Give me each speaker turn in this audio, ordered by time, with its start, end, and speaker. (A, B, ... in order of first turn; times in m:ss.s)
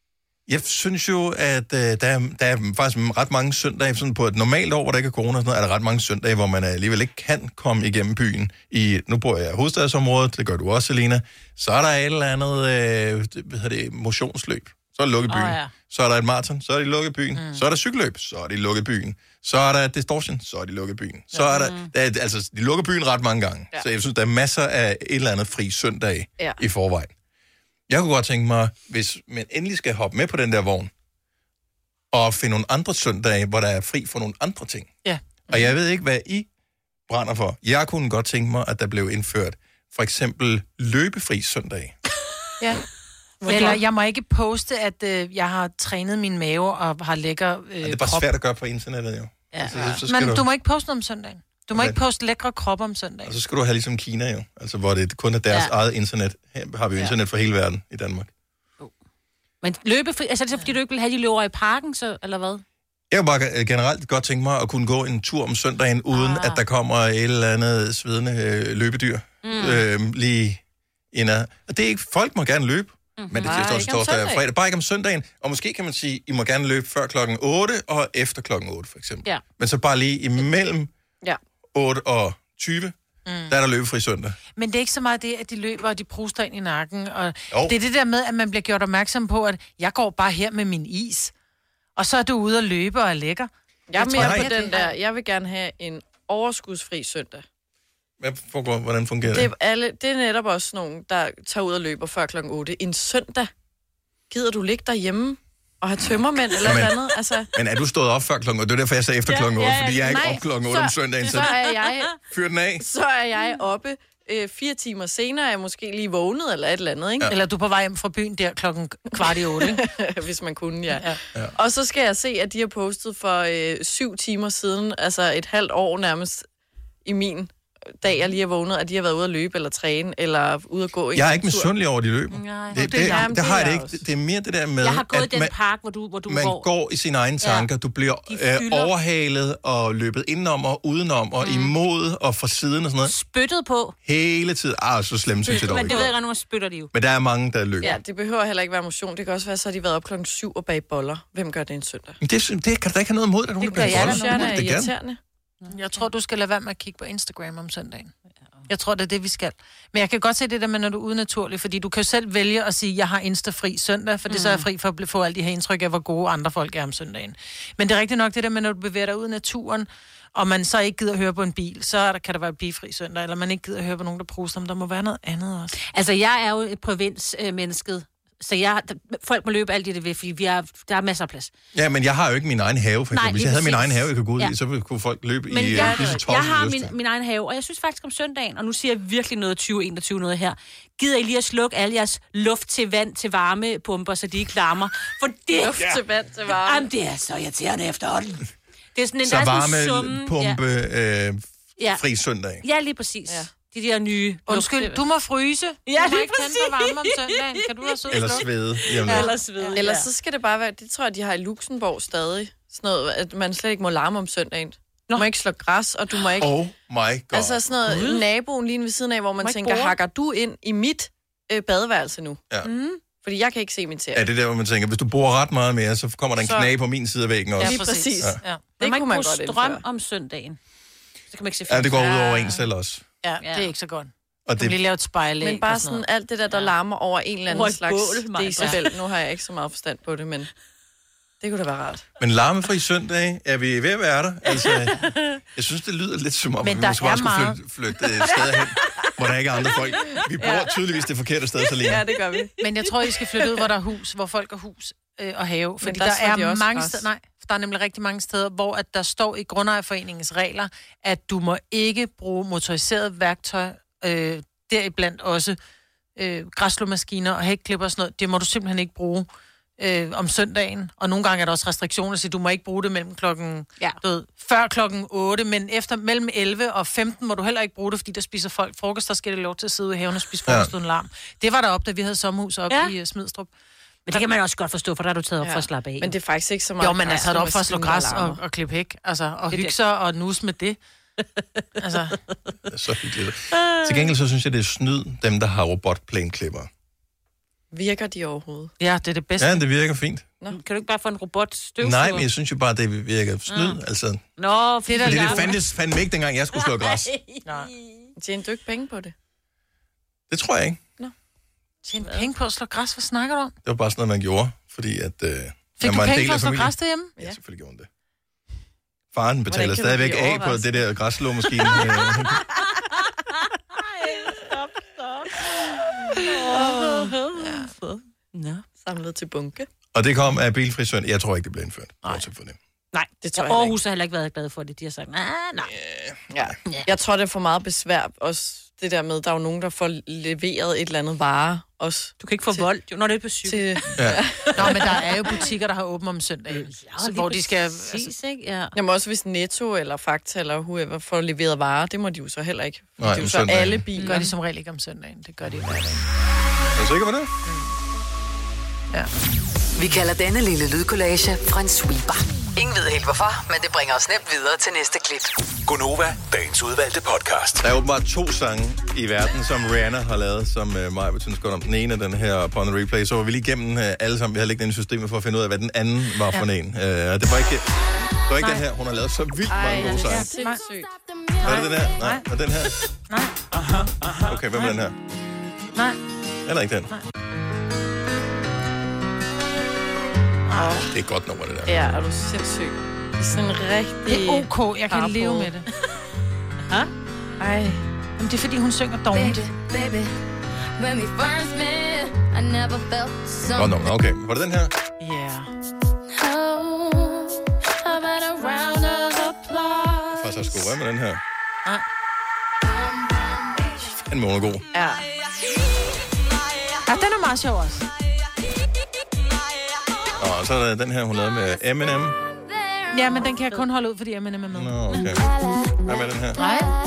0:00.5-0:27.1 A
0:15.3-0:15.7 B
0:21.4-0:21.9 B
0:27.9-0:30.9 A
0:32.1-0:34.9 A
0:35.5-0:36.5 A
0:37.1-0:41.9 A
0:43.4-0:43.7 C
0:43.4-0:43.8 B
0:43.4-0:48.3 D
0:47.8-0:50.4 A
0:50.0-0:53.4 D
0:51.7-0:52.0 A
0:53.2-0:58.3 A
0:59.6-1:02.6 B
1:03.1-1:10.6 A
1:06.2-1:06.6 D
1:09.4-1:09.8 B
1:11.1-1:20.9 A
1:13.2-1:13.7 B
1:13.4-1:14.4 C
1:21.7-1:22.9 A
1:23.2-1:23.5 D
1:23.5-1:24.4 A
1:24.6-1:31.3 D
1:32.0-1:34.9 D
1:33.9-1:37.4 C
1:34.1-1:34.5 A
1:38.2-1:39.5 A
1:39.2-1:43.5 C
1:44.3-1:47.5 C
1:46.6-1:47.0 A
1:47.5-1:51.6 A
1:49.3-1:50.3 B
1:50.1-1:50.4 D
1:50.6-1:52.1 C
1:51.4-1:51.9 B
1:52.2-1:52.8 A
1:52.8-1:57.3 C
1:57.3-1:59.8 D
1:59.1-2:06.4 C
2:07.0-2:11.7 C
2:11.1-2:15.5 A
2:12.3-2:13.3 B
2:12.7-2:14.0 C
2:14.8-2:16.7 B
2:16.3-2:23.1 A
2:17.4-2:17.7 B
2:18.3-2:18.9 B
2:21.4-2:21.7 B
2:23.0-2:23.9 B
2:24.0-2:26.1 A
2:25.5-2:26.0 C
2:25.5-2:26.9 B
2:26.9-2:28.0 A
2:27.8-2:32.2 C
2:32.2-2:34.9 A
2:33.6-2:34.5 D
2:33.8-2:35.2 C
2:35.7-2:38.1 D
2:38.7-2:55.8 D
2:44.3-2:44.6 B
2:55.8-3:01.5 B
3:01.7-3:06.9 A
3:03.1-3:04.5 B
3:05.5-3:20.6 B
3:05.7-3:06.2 C
3:15.5-3:16.8 C
3:19.2-3:21.4 A
3:21.9-3:22.6 A
3:22.6-3:25.0 B
3:24.5-3:28.5 D
3:25.9-3:30.1 B
3:28.1-3:29.4 A
3:29.0-3:29.8 D
3:29.7-3:36.5 C
3:36.4-3:37.6 A
3:37.3-3:42.4 C
3:37.8-3:38.2 B
3:39.4-3:40.0 B
3:42.6-3:43.0 D
3:43.2-3:44.2 C
3:44.1-3:48.4 A
3:46.4-3:46.7 C
3:47.6-3:48.6 D
3:47.6-3:49.8 C
3:48.8-3:50.6 B
3:51.3-3:52.4 B
3:51.7-3:53.0 A
3:53.2-3:56.0 D
3:53.4-3:53.7 B
3:54.4-3:54.8 A
3:55.4-4:00.5 C
3:57.5-3:59.0 B
4:01.4-4:02.0 C
4:02.2-4:12.0 A
4:06.6-4:07.6 D
4:11.8-4:12.5 C
4:12.6-4:25.6 D
4:15.8-4:17.0 C
4:26.2-4:29.3 D
4:29.8-4:43.5 D
4:44.1-4:46.2 B
4:45.4-4:48.4 C
4:46.8-4:50.8 D
4:51.8-4:52.2 D
4:52.7-4:56.7 A
4:53.5-4:54.1 B
4:57.7-4:58.7 C
4:58.8-4:59.6 D
4:59.4-5:00.2 A
5:00.5-5:02.3 B
5:01.8-5:04.2 A
5:03.5-5:03.8 B
5:04.4-5:05.6 B
5:04.8-5:05.6 D
5:05.0-5:07.1 A
5:06.5-5:08.1 B
5:07.4-5:07.7 D
5:08.2-5:09.1 C
5:10.3-5:10.8 A
5:11.8-5:13.5 D
5:12.0-5:12.3 B
5:13.6-5:17.9 A
5:15.8-5:17.1 D
5:19.1-5:22.4 A
5:19.5-5:20.8 C
5:23.8-5:28.6 B
5:26.3-5:27.4 C
5:28.8-5:29.7 C
5:29.9-5:32.6 A
5:32.9-5:35.7 B
5:33.2-5:33.8 C
5:35.6-5:36.5 A
5:36.3-5:42.6 C
5:42.2-5:43.9 B
5:43.4-5:45.0 C
5:44.0-5:44.2 A
5:44.5-5:48.1 D
5:44.6-5:45.0 B
5:46.5-5:48.8 B
5:48.7-5:54.3 C
5:53.0-5:53.8 A
5:54.0-5:56.0 D
5:56.7-5:57.3 A
5:57.4-5:57.7 D
5:59.8-6:05.3 E
6:05.7-6:07.6 F
6:07.6-6:17.7 A
6:18.2-6:20.3 A
6:19.5-6:20.9 C
6:20.0-6:20.6 D
6:21.0-6:21.4 G
6:21.4-6:22.8 A
6:21.4-6:22.2 D
6:24.2-6:25.0 A
6:26.4-6:26.9 A
6:30.5-6:30.8 D
6:30.5-6:30.9 C
6:30.9-6:31.8 A
6:31.6-6:35.5 C
6:34.1-6:35.6 D
6:37.4-6:37.8 C
6:38.2-6:39.4 D
6:39.1-6:40.2 G
6:40.8-6:44.0 G
6:43.5-6:44.7 A
6:45.0-6:45.5 D
6:46.2-6:50.2 G
6:50.1-6:51.2 A
6:54.0-6:54.7 A
6:54.7-6:55.0 C
6:56.9-6:57.9 D
7:00.2-7:02.2 A
7:02.9-7:04.9 D
7:04.5-7:05.3 A
7:05.8-7:06.4 A
7:06.4-7:06.7 D